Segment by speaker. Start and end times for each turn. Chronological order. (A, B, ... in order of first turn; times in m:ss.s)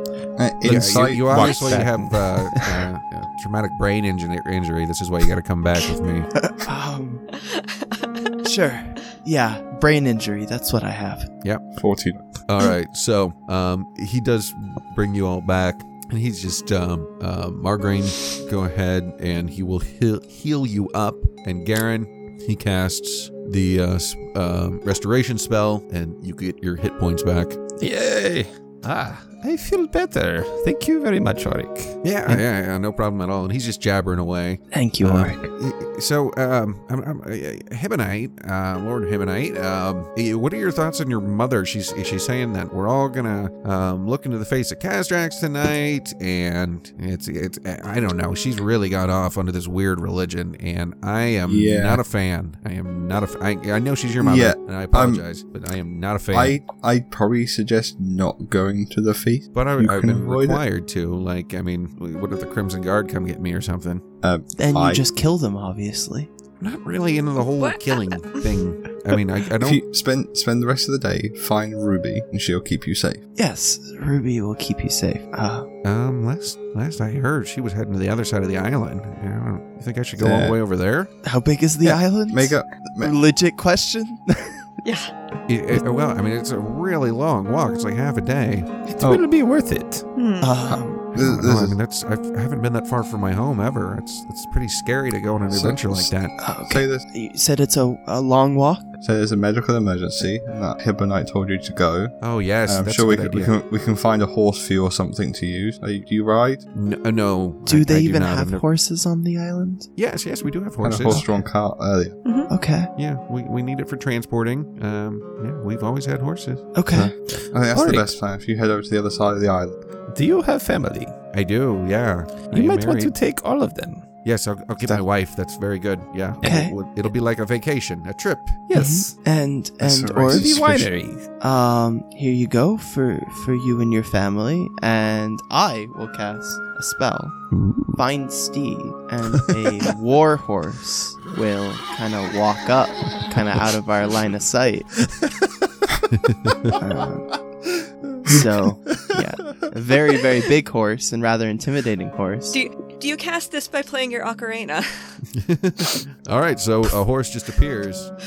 0:00.4-0:01.5 A
0:00.6-0:06.3 B
0:01.3-0:02.6 C
0:01.4-0:01.7 D
0:06.4-0:07.2 E
0:07.4-0:08.3 D
0:08.4-0:11.3 E
0:11.8-0:12.2 A
0:12.4-0:27.6 B
0:27.8-0:32.4 C
0:32.0-0:56.6 B
0:34.7-0:35.5 E
0:51.4-0:52.0 A
0:54.2-0:55.2 A
0:56.3-1:00.6 A
0:59.5-1:04.0 B
1:04.2-1:05.0 A
1:04.6-1:06.3 E
1:06.6-1:09.8 B
1:07.6-1:08.4 D
1:09.6-1:13.2 A
1:13.4-1:15.7 E
1:15.8-1:21.1 B
1:20.2-1:20.6 A
1:21.2-1:24.7 E
1:21.8-1:23.1 A
1:24.8-1:25.1 D
1:25.5-1:28.7 B
1:28.9-1:30.0 C
1:29.0-1:29.2 A
1:30.2-1:30.6 D
1:30.4-1:31.1 E
1:30.7-1:31.8 A
1:31.2-1:36.3 B
1:35.5-1:36.1 A
1:36.4-1:38.9 E
1:36.6-1:37.0 A
1:39.0-1:42.1 A
1:42.2-1:43.5 B
1:42.6-1:46.6 A
1:46.7-1:48.6 B
1:47.6-1:49.9 E
1:50.0-1:51.3 B
1:50.8-1:52.2 A
1:51.1-1:51.4 E
1:52.2-1:52.5 D
1:52.5-1:52.9 E
1:53.0-1:56.7 B
1:56.7-1:57.1 E
1:56.9-1:59.8 A
1:57.3-1:58.1 C
2:00.1-2:01.1 C
2:01.3-2:03.1 B
2:02.5-2:04.0 C
2:04.2-2:08.6 B
2:06.4-2:06.7 E
2:08.7-2:09.1 C
2:08.7-2:10.6 E
2:09.8-2:10.9 A
2:10.3-2:11.3 C
2:11.4-2:17.4 E
2:17.5-2:18.0 C
2:17.9-2:25.1 E
2:26.1-2:26.7 B
2:26.7-2:27.4 E
2:28.2-2:32.6 E
2:32.5-2:34.9 D
2:35.3-2:38.1 B